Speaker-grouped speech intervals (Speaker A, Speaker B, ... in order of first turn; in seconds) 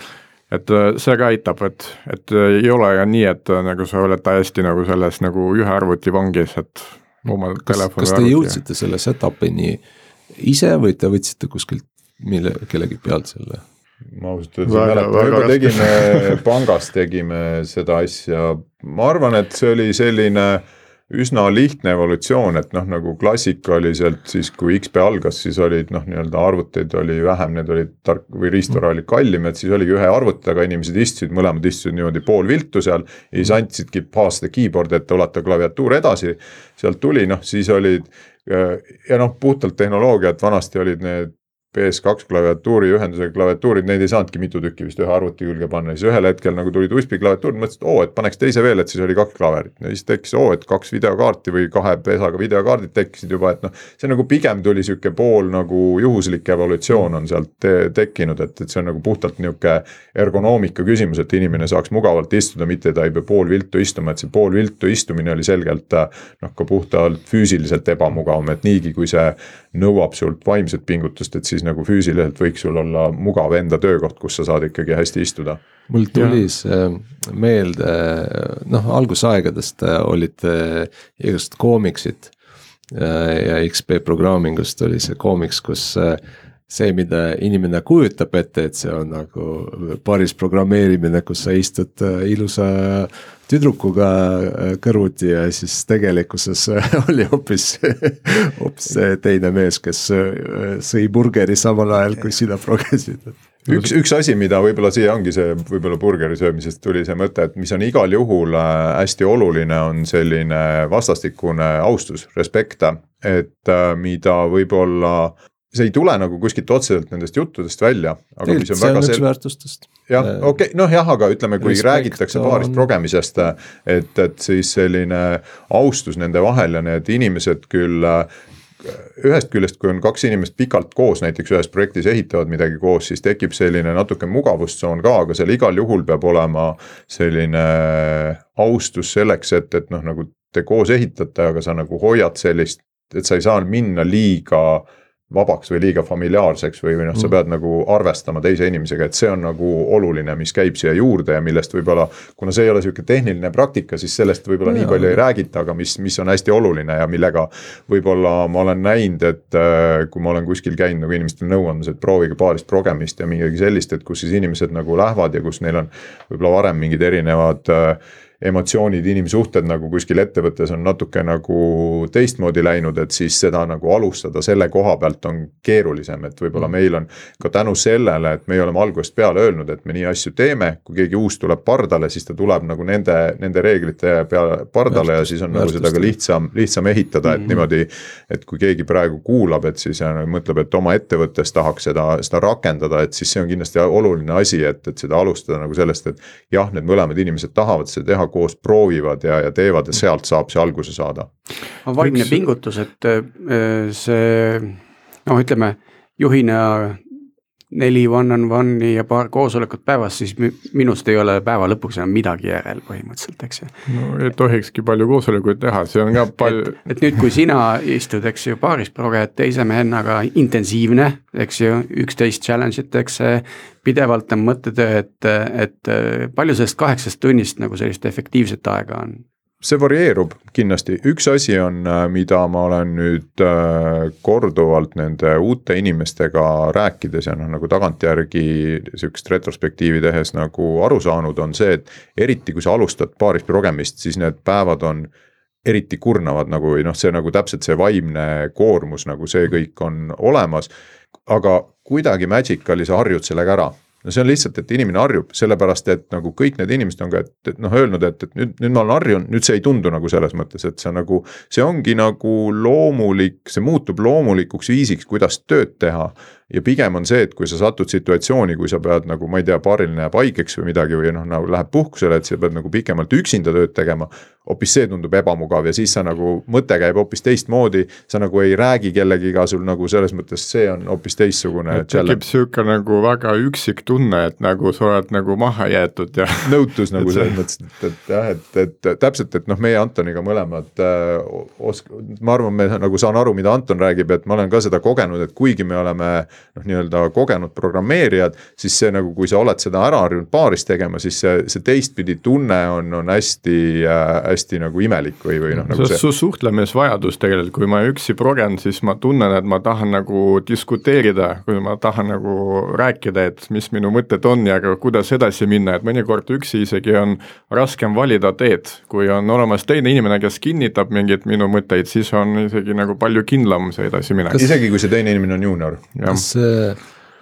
Speaker A: 0.5-8.6, 14.7-16.4, 76.2-76.4, 213.9-216.8, 281.7-287.3, 305.7-324.6, 326.0-326.2
Speaker B: 7.7-9.8, 10.3-13.6, 75.9-82.3, 82.9-103.4, 118.5-120.5, 121.6-122.9, 154.7-155.2, 184.9-186.1, 326.1-326.8
Speaker C: 14.1-75.6, 103.7-119.2, 120.1-128.3, 128.9-201.3, 229.6-245.1, 245.6-250.7, 251.2-282.2, 286.4-306.0, 324.3-325.9
Speaker D: 201.9-207.0, 207.7-213.7, 216.4-229.2